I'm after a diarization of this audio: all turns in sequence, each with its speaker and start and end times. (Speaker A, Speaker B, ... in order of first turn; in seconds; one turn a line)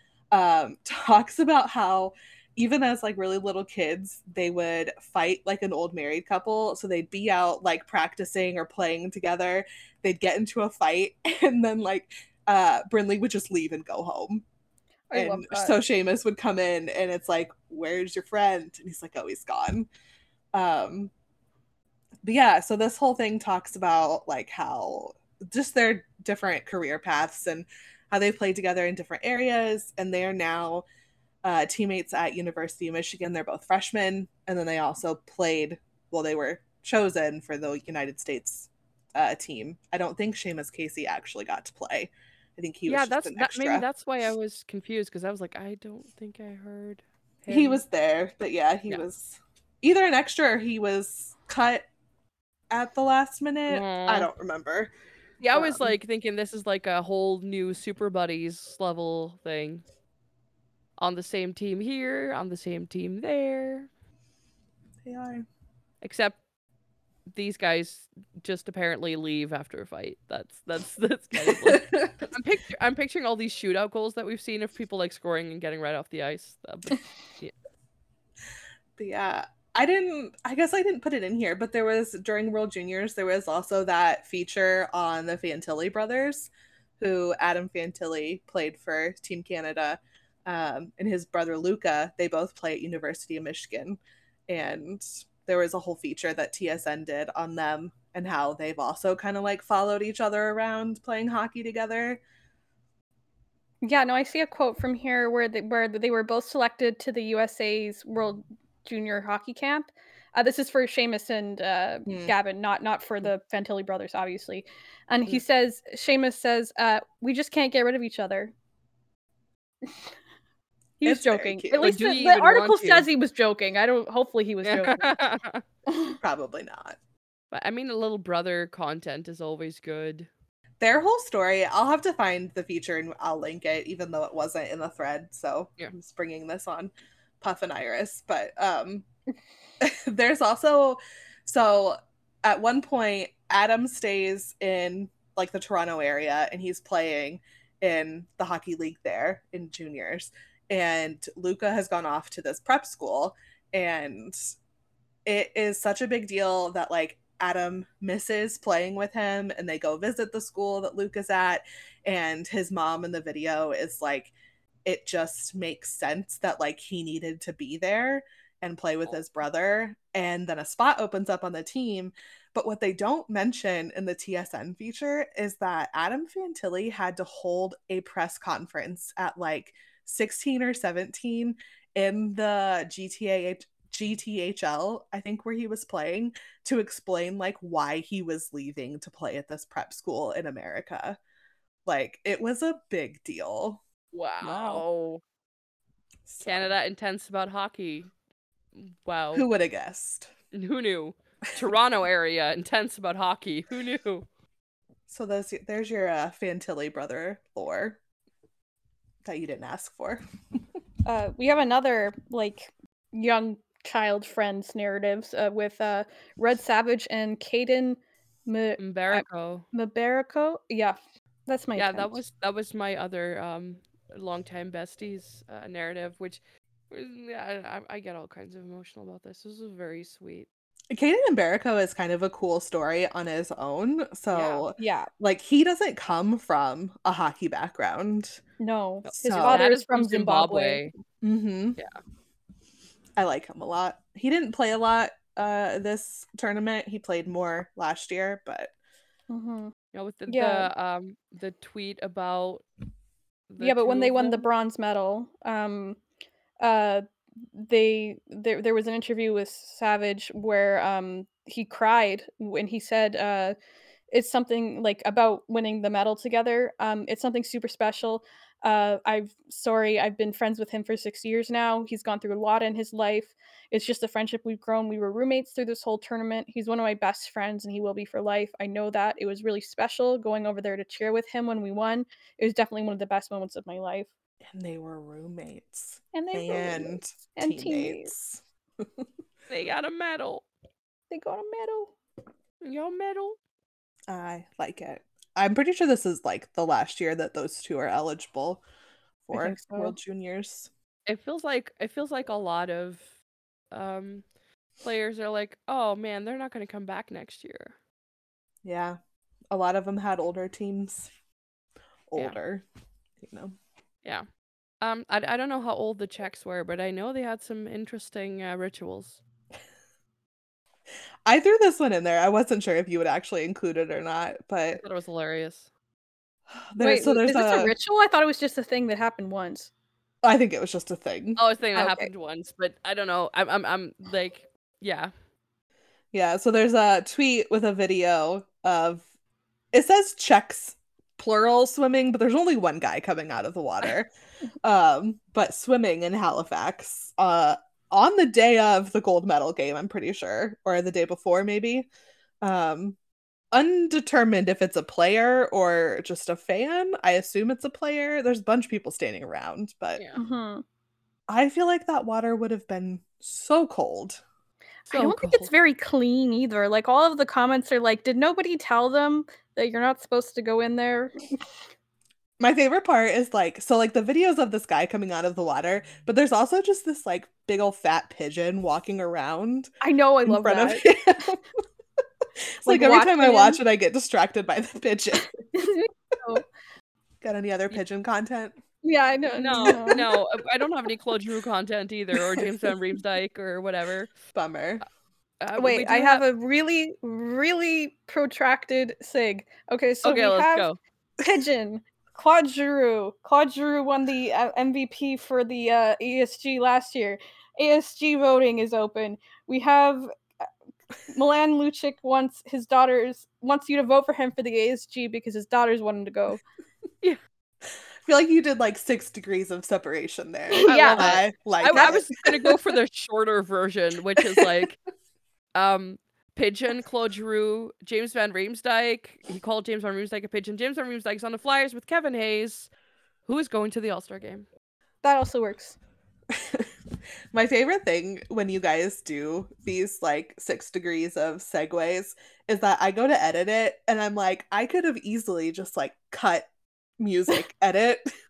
Speaker A: 0.3-14.4
Speaker B: 15.1-15.8
Speaker A: 15.1-19.9
Speaker A: 20.5-21.1
Speaker A: 22.2-30.8
Speaker A: 31.4-43.9
Speaker C: 42.9-47.8
Speaker A: 47.5-51.9
Speaker A: 52.7-54.9
Speaker C: 53.7-54.3
Speaker C: 55.4-59.8
Speaker A: 55.5-55.9
Speaker C: 61.0-63.9
Speaker A: 65.0-65.4
Speaker C: 66.0-66.4
Speaker C: 67.3-77.5
Speaker A: 71.4-72.2
Speaker A: 79.0-102.2
Speaker B: 103.8-118.5
Speaker A: 112.1-112.3
Speaker B: 121.0-125.2
Speaker A: 121.0-121.9
Speaker C: 121.8-123.1
Speaker C: 124.6-125.6
Speaker B: 125.9-126.2
Speaker A: 126.2-127.0
Speaker C: 127.5-130.3
Speaker A: 130.8-139.1
Speaker A: 139.8-154.4
Speaker A: 155.2-164.3
Speaker A: 164.8-191.2
Speaker A: 191.8-193.8
Speaker C: 194.1-195.2
Speaker B: 194.4-194.8
Speaker A: 196.2-196.7
Speaker C: 196.4-198.1
Speaker C: 198.8-199.5
Speaker A: 199.3-200.3
Speaker C: 200.5-204.2
Speaker A: 205.1-208.0
Speaker A: 209.2-210.2
Speaker B: 211.0-222.2
Speaker C: 218.8-219.7
Speaker C: 221.8-230.5
Speaker A: 230.9-238.4
Speaker C: 234.3-234.6
Speaker B: 234.8-235.1
Speaker B: 238.6-240.8
Speaker C: 239.1-240.9
Speaker A: 239.2-239.6
Speaker A: 241.2-241.8
Speaker A: 243.2-248.7
Speaker B: 249.3-249.7
Speaker C: 249.9-252.6
Speaker B: 250.3-250.7
Speaker C: 253.5-254.4
Speaker B: 253.6-256.0
Speaker B: 256.6-263.6
Speaker B: 264.1-284.1
Speaker A: 284.4-289.0
Speaker B: 286.1-288.1
Speaker C: 289.5-290.4
Speaker B: 291.1-291.9
Speaker C: 292.6-293.4
Speaker A: 294.1-298.6
Speaker A: 299.2-300.7
Speaker B: 299.3-299.9
Speaker C: 301.1-303.1
Speaker C: 303.7-304.2
Speaker C: 304.8-307.7
Speaker A: 308.6-309.0
Speaker A: 309.5-311.1
Speaker A: 312.1-312.6
Speaker A: 313.2-313.5
Speaker C: 314.8-319.2
Speaker A: 321.2-324.8
Speaker C: 324.7-325.7
Speaker A: 326.7-327.7
Speaker B: 326.8-329.7
Speaker A: 330.2-331.4
Speaker C: 331.4-335.1
Speaker B: 331.7-332.1
Speaker A: 336.1-339.0
Speaker A: 339.7-344.1
Speaker A: 344.6-351.9
Speaker A: 352.4-353.0
Speaker A: 353.5-360.0
Speaker C: 359.9-360.2
Speaker B: 360.1-360.6
Speaker A: 361.3-364.2
Speaker B: 364.9-371.1
Speaker C: 364.9-365.5
Speaker A: 372.4-379.7
Speaker B: 379.8-380.8
Speaker A: 380.2-381.4
Speaker A: 382.6-385.3
Speaker B: 382.6-383.6
Speaker B: 385.5-386.4
Speaker A: 387.2-388.6
Speaker B: 388.8-390.0
Speaker C: 389.3-394.1
Speaker A: 389.7-390.0
Speaker A: 394.3-394.8
Speaker C: 395.4-396.2
Speaker B: 395.6-400.7
Speaker C: 400.0-400.8
Speaker B: 401.2-410.1
Speaker B: 411.1-416.4
Speaker A: 418.0-422.5
Speaker B: 420.5-422.0
Speaker C: 420.7-424.8
Speaker C: 425.5-432.7
Speaker C: 433.2-434.4
Speaker B: 435.0-435.8
Speaker A: 436.3-436.7
Speaker A: 437.3-446.5
Speaker A: 447.0-448.0